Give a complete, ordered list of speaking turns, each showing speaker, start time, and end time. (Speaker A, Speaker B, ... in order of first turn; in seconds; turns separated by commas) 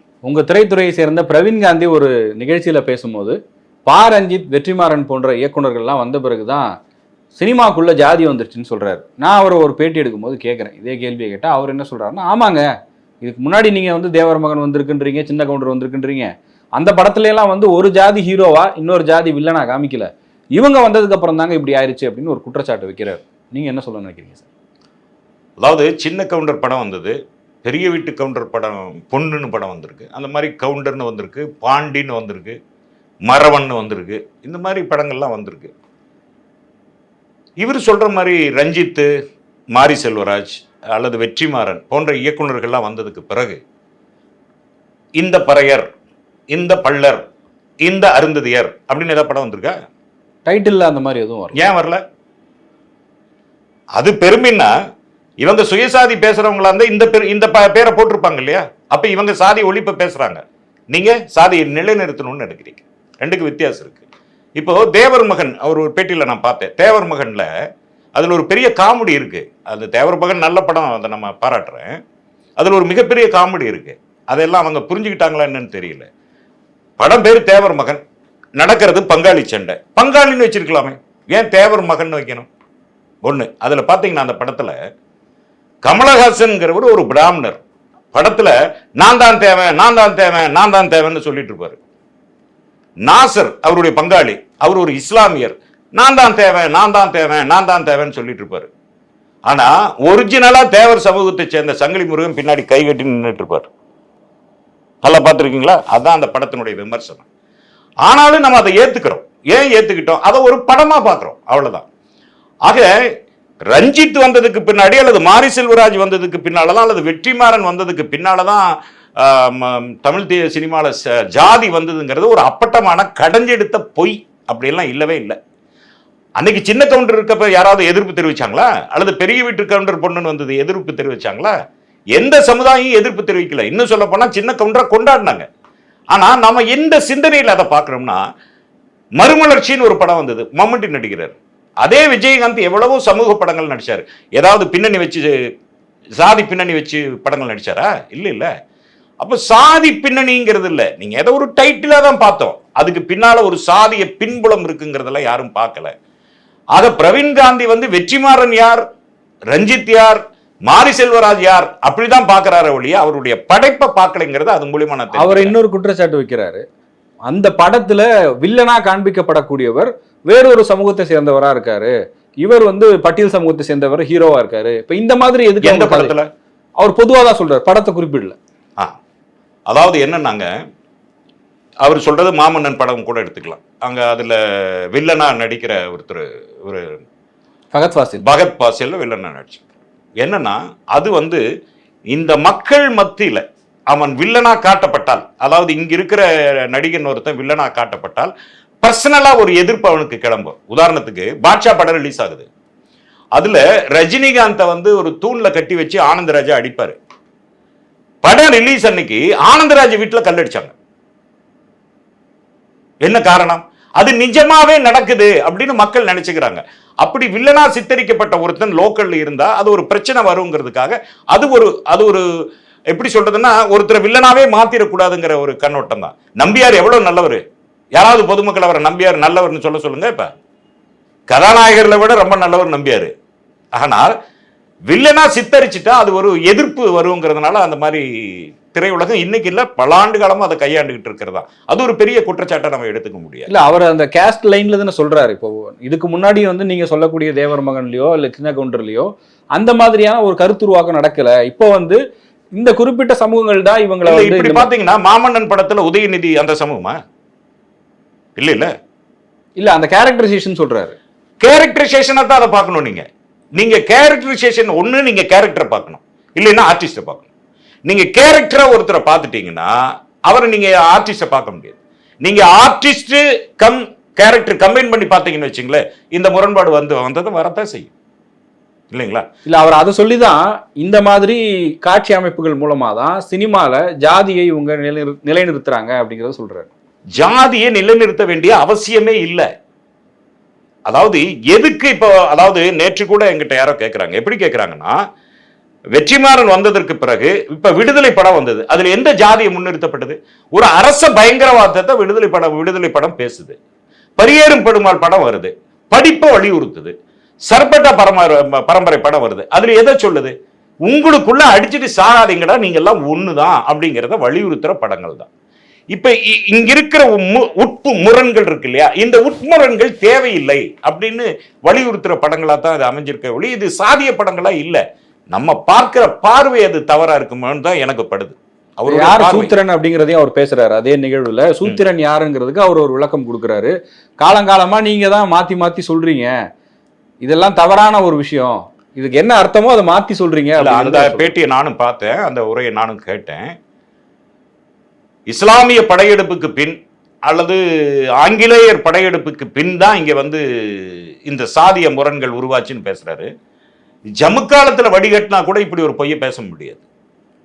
Speaker A: 0.2-6.7, Speaker A: 7.3-12.7, Speaker A: 13.2-24.5, Speaker B: 25.6-32.6, Speaker B: 33.2-35.7, Speaker B: 37.6-39.1, Speaker B: 39.7-43.6, Speaker B: 45.1-45.9, Speaker B: 46.5-47.2, Speaker B: 47.8-49.8, Speaker A: 50.5-51.6, Speaker B: 51.5-52.0, Speaker B: 54.0-54.7, Speaker B: 55.4-64.0, Speaker B: 64.6-67.5, Speaker B: 68.2-72.0, Speaker B: 72.6-76.1, Speaker B: 77.0-78.0, Speaker B: 78.6-82.5, Speaker B: 83.2-84.8, Speaker B: 85.8-87.6, Speaker B: 88.1-91.8, Speaker B: 93.0-98.7, Speaker B: 99.5-103.7, Speaker B: 105.0-107.2, Speaker B: 108.0-111.8, Speaker B: 113.7-125.4, Speaker B: 126.4-131.5, Speaker B: 132.1-135.4, Speaker B: 136.1-138.2, Speaker B: 139.2-145.3, Speaker B: 146.2-148.5, Speaker B: 149.2-155.9, Speaker B: 156.7-158.8, Speaker B: 159.5-165.5, Speaker A: 165.2-166.6, Speaker A: 167.2-176.1, Speaker B: 175.6-176.3, Speaker A: 176.8-178.3, Speaker B: 179.7-180.5, Speaker B: 181.8-187.0, Speaker A: 187.7-188.2, Speaker B: 188.2-189.6, Speaker B: 190.2-191.4, Speaker B: 192.1-202.5, Speaker B: 203.3-207.0, Speaker B: 208.2-210.7, Speaker B: 213.0-222.2, Speaker B: 222.9-227.4, Speaker B: 227.9-230.3, Speaker B: 231.3-233.1, Speaker B: 233.7-234.1, Speaker B: 234.9-243.5, Speaker A: 243.5-252.0, Speaker A: 252.6-254.7, Speaker B: 254.0-257.0, Speaker B: 258.4-258.7, Speaker A: 259.6-260.9, Speaker B: 261.4-267.2, Speaker B: 267.9-269.7, Speaker B: 270.3-277.9, Speaker B: 278.9-279.3, Speaker A: 279.4-286.7, Speaker B: 287.2-289.5, Speaker B: 290.9-295.0, Speaker B: 295.9-303.6, Speaker B: 304.2-306.9, Speaker B: 307.5-310.3, Speaker B: 310.9-315.3, Speaker B: 315.9-329.5, Speaker A: 328.9-336.3, Speaker A: 337.2-341.3, Speaker B: 340.6-343.6, Speaker B: 345.3-346.8, Speaker B: 347.3-347.6, Speaker B: 348.2-353.3, Speaker B: 354.1-356.8